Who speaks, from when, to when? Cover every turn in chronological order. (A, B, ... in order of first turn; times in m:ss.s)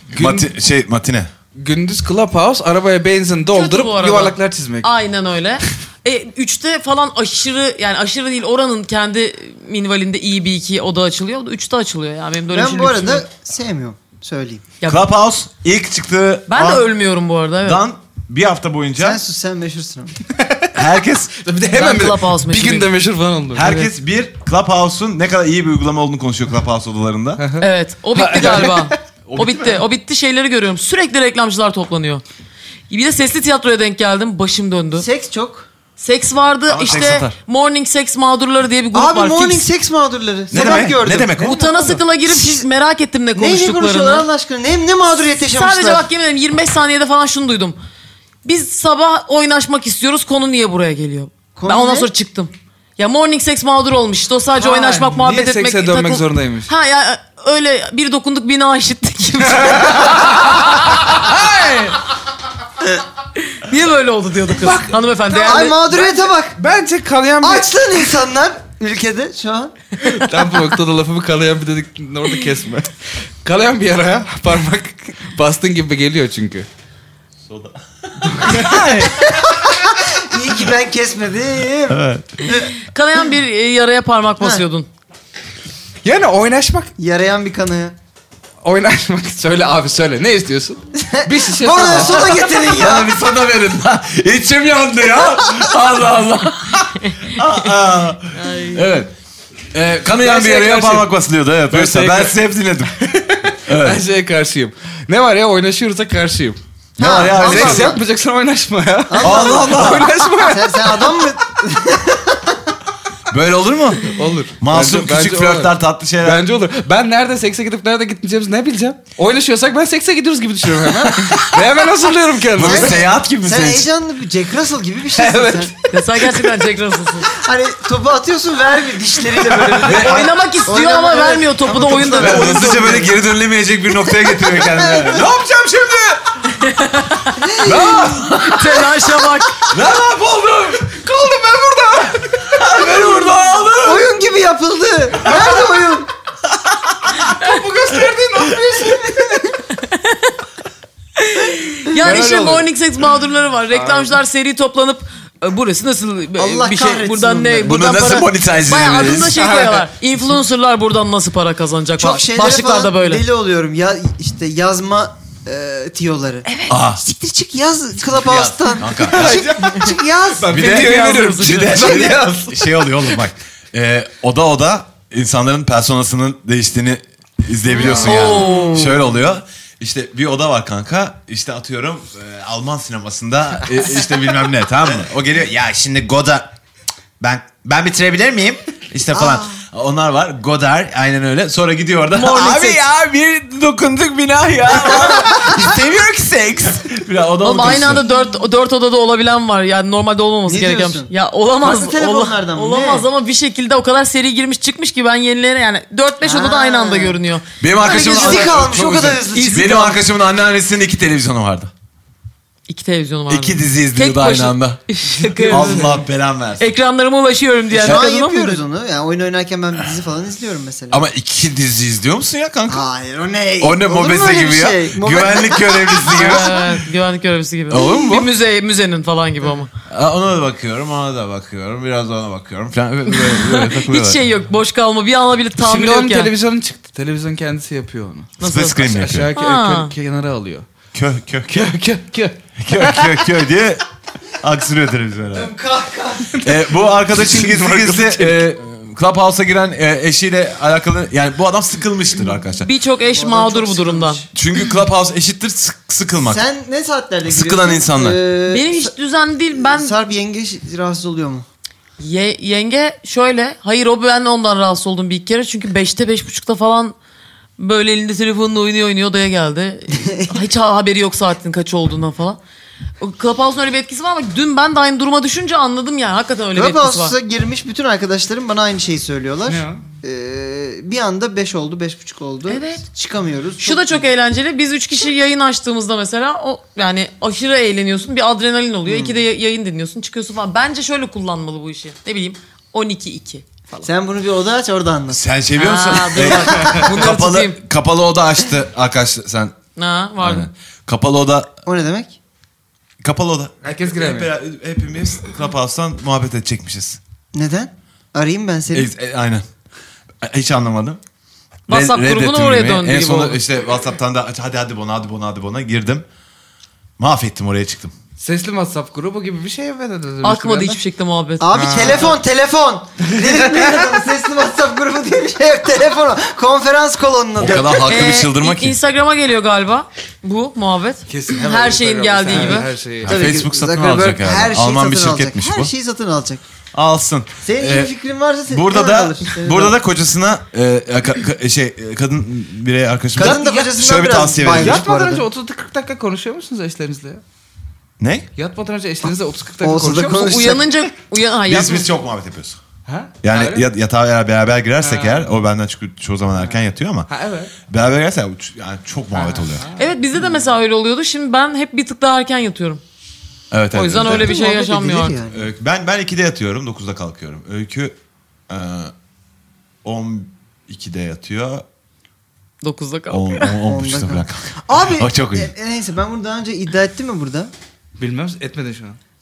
0:00.1-0:00.5 A
0:00.1-0:01.3 B
0:01.5-0:04.9 A
0:03.5-0:13.2 C
0:12.5-0:14.7 D
0:14.8-0:15.1 C
0:14.9-0:16.9 B
0:16.5-0:17.8 C
0:17.6-0:19.2 B
0:19.0-0:20.2 D
0:20.3-0:20.7 A
0:20.7-0:21.3 B
0:21.3-0:23.9 A
0:21.7-0:22.9 C
0:23.5-0:27.4 B
0:27.4-0:29.0 A
0:27.6-0:32.2 C
0:29.3-0:29.8 B
0:32.9-0:35.0 C
0:35.0-0:35.7 D
0:36.0-0:39.6 C
0:36.7-0:37.4 B
0:38.9-0:42.6 D
0:40.5-0:41.6 B
0:40.6-0:44.2 C
0:43.4-0:46.0 D
0:45.5-0:47.8 C
0:48.4-1:01.4 C
0:51.6-0:52.1 D
0:54.6-0:56.7 A
0:59.5-1:02.0 A
1:03.4-1:05.8 C
1:04.5-1:08.1 A
1:05.3-1:06.6 D
1:07.4-1:09.7 D
1:10.0-1:16.6 A
1:17.5-1:19.3 B
1:18.3-1:18.8 A
1:19.1-1:22.7 D
1:21.9-1:22.4 B
1:22.7-1:24.9 C
1:26.0-1:26.9 A
1:27.0-1:28.0 D
1:28.6-1:32.5 A
1:31.0-1:33.1 D
1:31.9-1:39.1 B
1:38.3-1:38.9 C
1:39.7-1:42.9 B
1:40.2-1:41.1 A
1:41.7-1:42.4 A
1:43.0-1:46.6 A
1:43.6-1:44.0 B
1:47.0-1:48.0 B
1:47.0-1:48.0 D
1:47.3-1:51.3 A
1:49.1-1:52.6 D
1:49.2-1:50.1 B
1:53.3-1:54.1 B
1:54.1-2:03.0 A
1:54.6-1:56.4 B
2:01.1-2:01.4 B
2:02.5-2:03.9 B
2:02.6-2:05.7 D
2:05.1-2:06.5 A
2:05.9-2:07.3 C
2:07.3-2:13.1 D
2:09.8-2:10.3 B
2:09.8-2:13.1 C
2:12.2-2:16.4 B
2:14.3-2:15.3 D
2:16.5-2:19.7 C
2:17.4-2:18.1 D
2:17.6-2:18.9 B
2:19.7-2:21.1 B
2:21.0-2:22.6 A
2:22.3-2:24.1 B
2:23.8-2:26.1 D
2:26.5-2:27.3 B
2:27.4-2:29.1 A
2:28.5-2:29.6 D
2:29.7-2:30.3 C
2:31.2-2:43.2 C
2:32.0-2:32.7 A
2:33.7-2:34.2 A
2:36.4-2:37.9 D
2:37.6-2:39.4 B
2:39.2-2:39.8 A
2:42.0-2:46.5 D
2:46.4-2:46.8 C
2:46.7-2:47.0 B
2:47.0-2:50.6 D
2:48.1-2:49.4 B
2:49.0-2:53.1 A
2:50.5-3:06.5 B
2:50.6-2:52.0 C
2:57.7-2:58.9 C
2:57.8-2:59.0 D
3:07.2-3:18.0 B
3:09.1-3:09.5 D
3:12.1-3:12.8 C
3:17.4-3:27.4 C
3:20.5-3:23.1 D
3:26.2-3:27.2 D
3:27.6-3:31.7 B
3:27.8-3:30.0 D
3:28.0-3:28.3 C
3:29.3-3:29.8 C
3:32.7-3:35.9 C
3:33.3-3:34.8 B
3:35.2-3:36.0 A
3:35.5-3:36.7 B
3:36.6-3:38.6 C
3:37.7-3:41.0 D
3:40.9-3:42.8 B
3:42.7-3:46.5 D
3:43.6-3:46.7 B
3:46.1-3:49.7 C
3:47.7-3:48.3 B
3:49.9-3:54.2 B
3:53.1-3:56.3 C
3:55.6-4:00.6 A
3:58.4-3:59.9 C
3:58.4-3:59.3 B
4:00.9-4:01.7 B
4:01.5-4:03.2 A
4:02.6-4:03.8 B
4:04.4-4:05.5 B
4:05.3-4:06.3 D
4:06.3-4:08.5 A
4:06.4-4:12.7 B
4:12.6-4:14.2 C
4:13.1-4:14.3 D
4:14.3-4:16.4 B
4:16.2-4:18.9 D
4:17.2-4:18.2 B
4:18.5-4:19.9 C
4:19.5-4:21.4 D
4:22.0-4:26.9 C
4:27.6-4:32.4 C
4:30.0-4:30.3 D
4:33.0-4:37.1 C
4:36.5-4:44.0 D
4:39.5-4:39.8 A
4:42.5-4:42.8 C
4:43.6-4:53.9 C
4:48.9-4:49.2 D
4:53.8-4:55.2 D
4:55.1-4:59.5 B
4:55.6-4:57.6 C
4:56.2-4:56.9 D
4:59.8-5:00.5 C
5:00.2-5:01.5 B
5:01.6-5:02.2 D
5:03.0-5:07.0 B
5:03.6-5:04.3 A
5:07.3-5:08.9 D
5:08.7-5:09.4 B
5:10.2-5:11.0 B
5:11.7-5:13.4 C
5:11.7-5:16.0 B
5:17.0-5:17.9 B
5:18.2-5:20.8 A
5:20.2-5:22.1 C
5:21.4-5:27.9 D
5:21.5-5:22.2 A
5:23.2-5:23.8 A
5:27.4-5:28.8 B
5:27.8-5:32.7 C
5:31.1-5:33.3 A
5:32.3-5:36.4 D
5:33.0-5:35.7 B
5:36.7-5:37.9 B
5:37.4-5:39.8 D
5:38.5-5:44.8 B
5:43.1-5:45.2 D
5:43.2-5:43.7 A
5:44.5-5:47.2 A
5:48.0-5:48.3 B
5:48.4-5:50.6 A
5:49.6-5:50.6 D
5:50.1-5:51.9 C
5:51.5-5:52.6 B
5:52.8-5:53.7 A
5:53.2-5:57.1 B
5:54.8-5:55.3 A
5:56.4-5:57.5 A
5:57.7-5:59.7 B
5:59.1-5:59.9 A
5:59.8-6:02.8 C
6:03.5-6:04.3 B
6:03.7-6:05.2 C
6:03.9-6:05.4 D
6:05.3-6:07.9 B
6:08.5-6:08.9 B
6:09.8-6:11.6 B
6:12.6-6:13.5 C
6:13.1-6:15.5 B
6:13.6-6:17.5 D
6:18.0-6:19.0 A